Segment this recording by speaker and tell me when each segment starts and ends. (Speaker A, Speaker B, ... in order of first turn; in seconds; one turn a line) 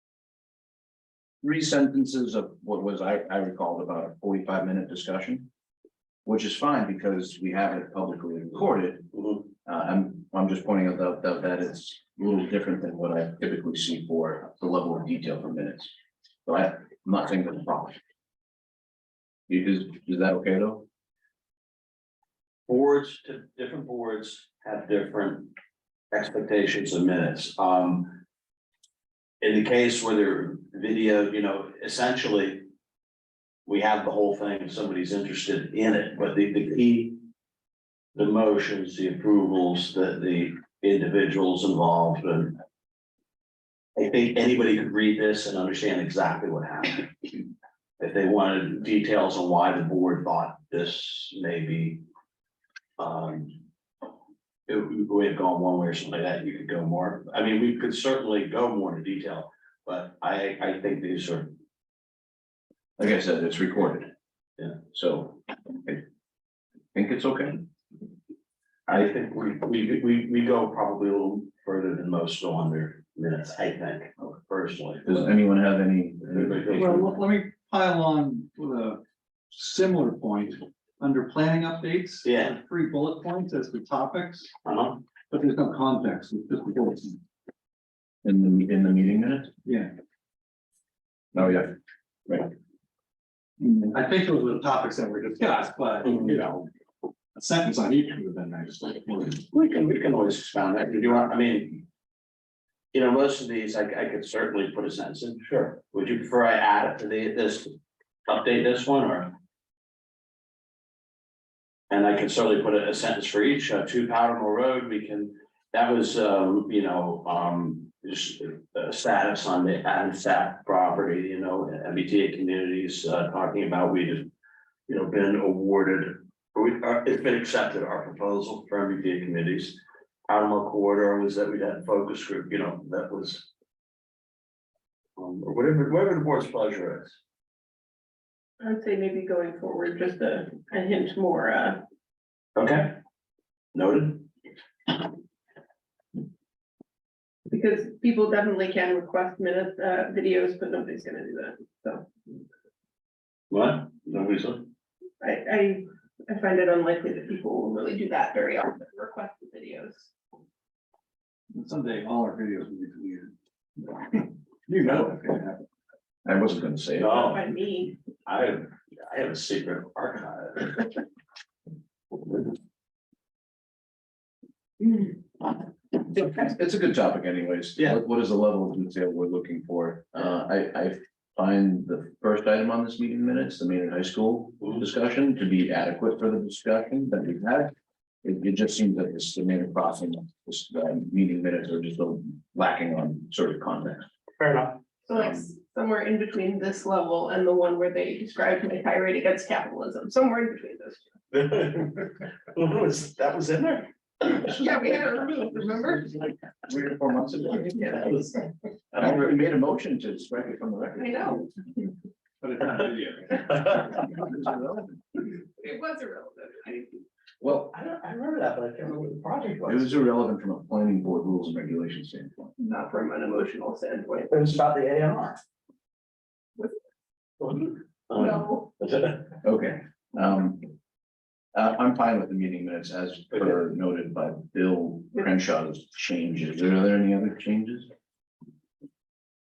Speaker A: 1.4-5.5
Speaker A: 6.2-9.1
Speaker B: 9.1-9.4
Speaker A: 9.7-15.9
Speaker A: 16.5-18.0
Speaker A: 19.5-20.9
Speaker B: 22.7-25.5
Speaker B: 26.1-28.2
Speaker B: 29.4-32.7
Speaker B: 33.7-37.2
Speaker B: 38.1-42.6
Speaker B: 44.0-47.4
Speaker B: 48.0-52.0
Speaker B: 53.0-53.6
Speaker B: 54.7-61.5
Speaker A: 63.0-64.1
Speaker A: 64.9-66.0
Speaker A: 66.9-67.6
Speaker B: 68.9-75.2
Speaker A: 75.1-77.2
Speaker B: 76.2-77.1
Speaker C: 76.7-79.0
Speaker C: 79.5-84.5
Speaker B: 82.2-82.6
Speaker B: 84.7-85.0
Speaker C: 85.3-87.2
Speaker A: 88.2-89.5
Speaker C: 89.6-89.9
Speaker A: 91.3-91.7
Speaker C: 93.6-96.7
Speaker B: 96.0-96.3
Speaker C: 97.3-99.5
Speaker B: 99.5-101.8
Speaker B: 102.9-107.8
Speaker B: 108.3-109.4
Speaker B: 111.9-124.3
Speaker B: 124.9-133.5
Speaker B: 135.2-137.2
Speaker D: 138.6-141.8
Speaker B: 142.6-143.0
Speaker B: 143.7-144.3
Speaker D: 147.5-152.1
Speaker B: 153.5-154.7
Speaker D: 155.2-160.1
Speaker C: 161.5-163.3
Speaker C: 163.9-165.6
Speaker A: 166.2-167.3
Speaker B: 167.0-167.5
Speaker D: 167.2-167.9
Speaker B: 168.1-171.0
Speaker A: 176.1-187.7
Speaker A: 188.2-194.1
Speaker B: 194.4-194.8
Speaker D: 195.1-201.1
Speaker B: 201.3-204.4
Speaker D: 204.4-206.1
Speaker A: 205.9-208.3
Speaker A: 208.9-211.5
Speaker D: 211.0-211.4
Speaker C: 212.4-213.8
Speaker B: 213.5-213.9
Speaker A: 214.2-214.8
Speaker D: 215.6-217.0
Speaker B: 217.4-220.1
Speaker A: 219.7-222.5
Speaker D: 222.6-224.3
Speaker B: 224.3-225.4
Speaker B: 227.4-229.3
Speaker D: 228.2-228.6
Speaker A: 229.4-230.7
Speaker A: 231.5-237.9